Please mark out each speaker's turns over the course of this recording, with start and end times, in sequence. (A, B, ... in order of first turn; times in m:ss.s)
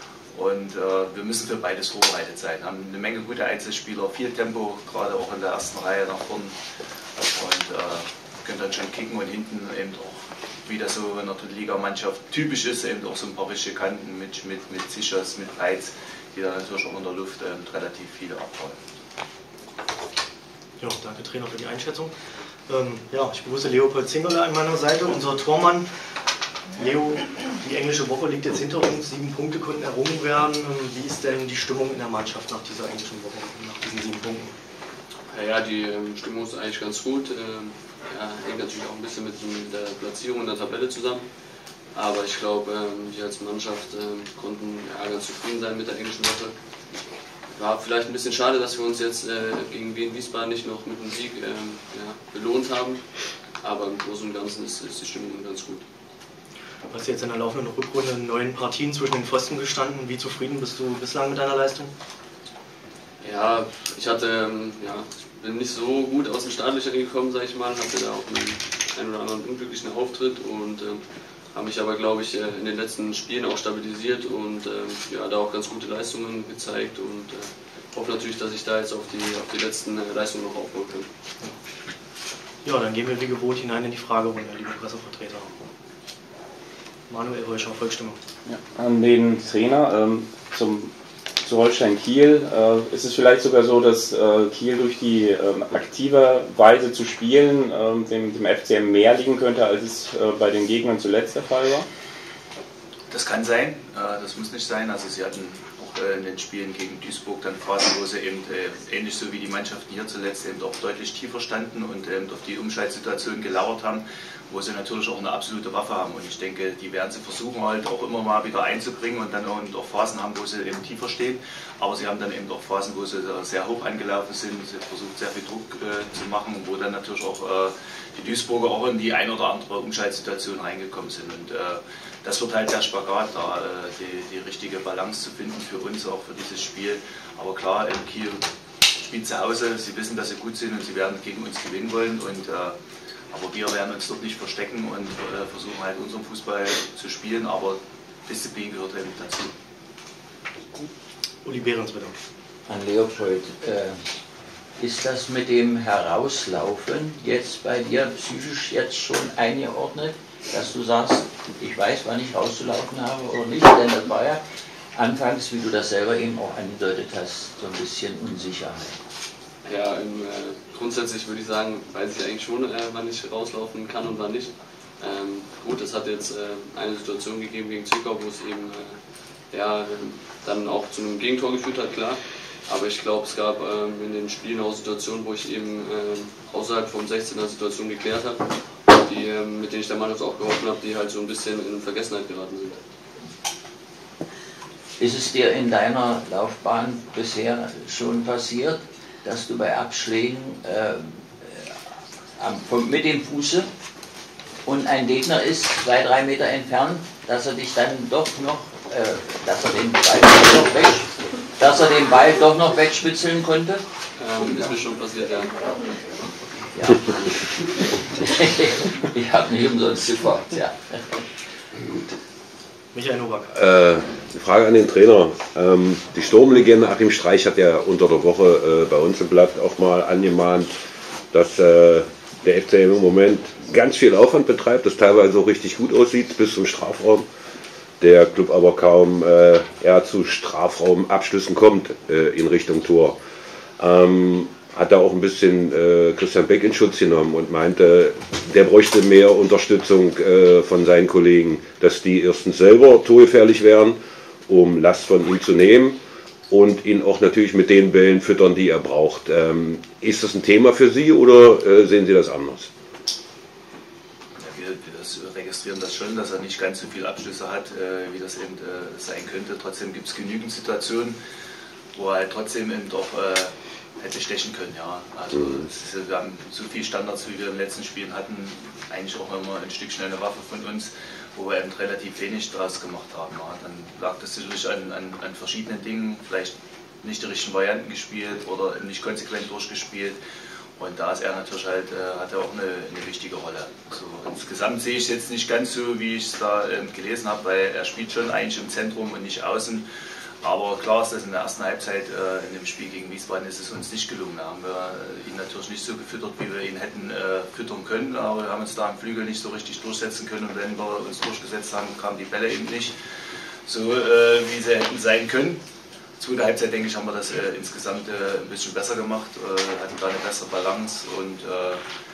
0:00.3-0:06.6 A
0:07.2-0:18.8 A
0:20.8-0:22.1 B
0:22.7-0:25.9 B
0:26.8-0:34.6 B
0:35.3-0:46.6 C
0:47.5-0:55.8 C
0:56.9-1:01.9 B
1:03.2-1:21.1 C
1:22.6-1:25.5 B
1:27.1-1:28.2 B
1:28.5-1:30.9 D
1:31.4-1:41.9 D
1:43.1-2:18.4 A
2:19.0-2:22.8 A
2:23.3-2:29.5 A
2:31.4-2:32.2 B
2:32.7-2:34.0 E
2:34.8-2:44.4 E
2:45.0-2:49.0 E
2:49.6-2:59.0 C
2:59.5-3:12.8 C
3:15.0-3:21.7 E
3:22.4-3:23.7 E
3:24.7-3:33.8 E
3:34.2-3:35.5 C
3:36.7-3:41.0 E
3:42.9-3:43.5 B
3:43.5-3:50.7 F
3:51.3-3:57.3 F
3:58.0-4:03.2 F
4:03.8-4:14.0 F
4:14.5-4:16.0 F
4:16.5-4:22.7 F
4:24.4-4:31.2 A
4:32.0-4:50.2 A
4:50.8-4:59.8 A
5:00.4-5:12.9 A
5:13.7-5:15.6 A
5:16.2-5:21.8 A